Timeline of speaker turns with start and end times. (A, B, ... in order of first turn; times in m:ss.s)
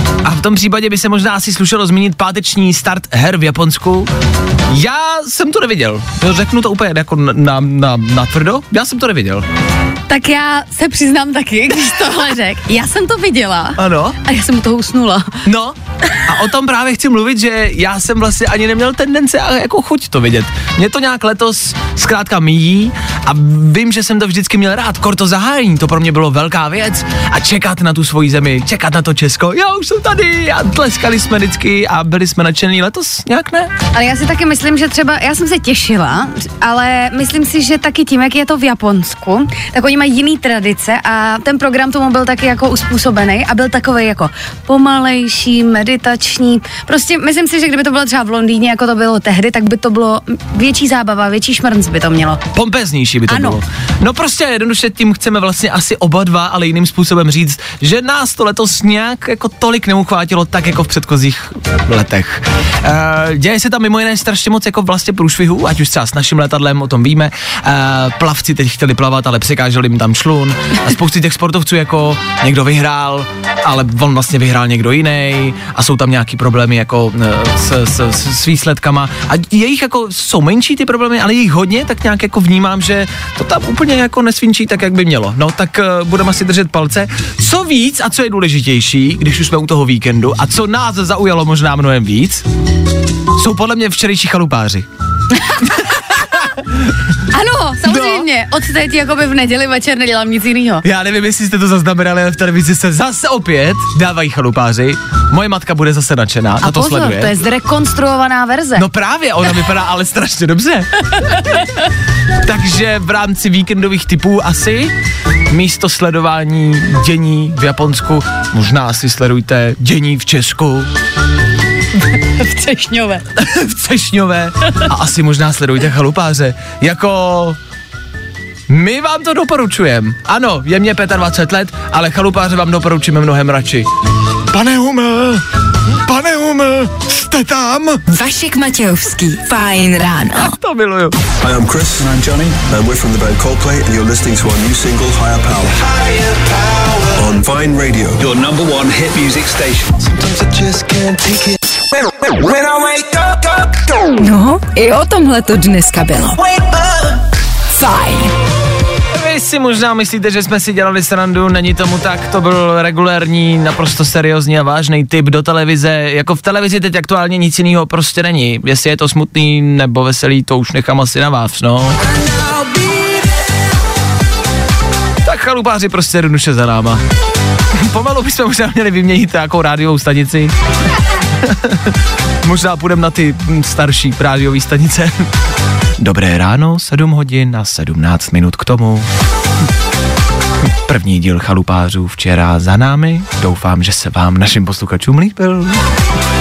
0:00.2-0:04.1 A
0:04.7-0:09.4 A
0:10.1-0:15.3 B
0:13.8-0:14.2 A
0:15.4-0:33.7 A
0:33.9-0:52.4 B
0:52.5-1:32.4 A
0:53.3-0:53.6 B
1:33.4-1:34.9 A
1:35.7-1:36.4 A
1:37.3-1:40.8 B
1:37.8-1:38.2 A
1:40.8-1:47.3 A
1:46.6-1:48.8 B
1:48.8-1:51.4 A
1:52.4-1:54.9 A
1:55.5-2:00.9 A
2:02.2-2:03.2 B
2:03.4-2:07.6 A
2:08.7-2:13.9 A
2:14.5-2:18.0 A
2:18.1-2:20.5 C
2:20.4-2:21.2 A
2:21.4-2:26.0 D
2:27.1-2:28.2 D
2:28.2-2:31.5 E
2:32.3-2:33.8 D
2:34.2-2:36.4 C
2:37.7-2:38.3 C
2:39.1-2:52.0 A
2:55.2-2:57.0 A
2:57.7-3:00.5 A
3:01.4-3:05.3 A
3:06.0-3:09.1 A
3:10.8-3:15.8 A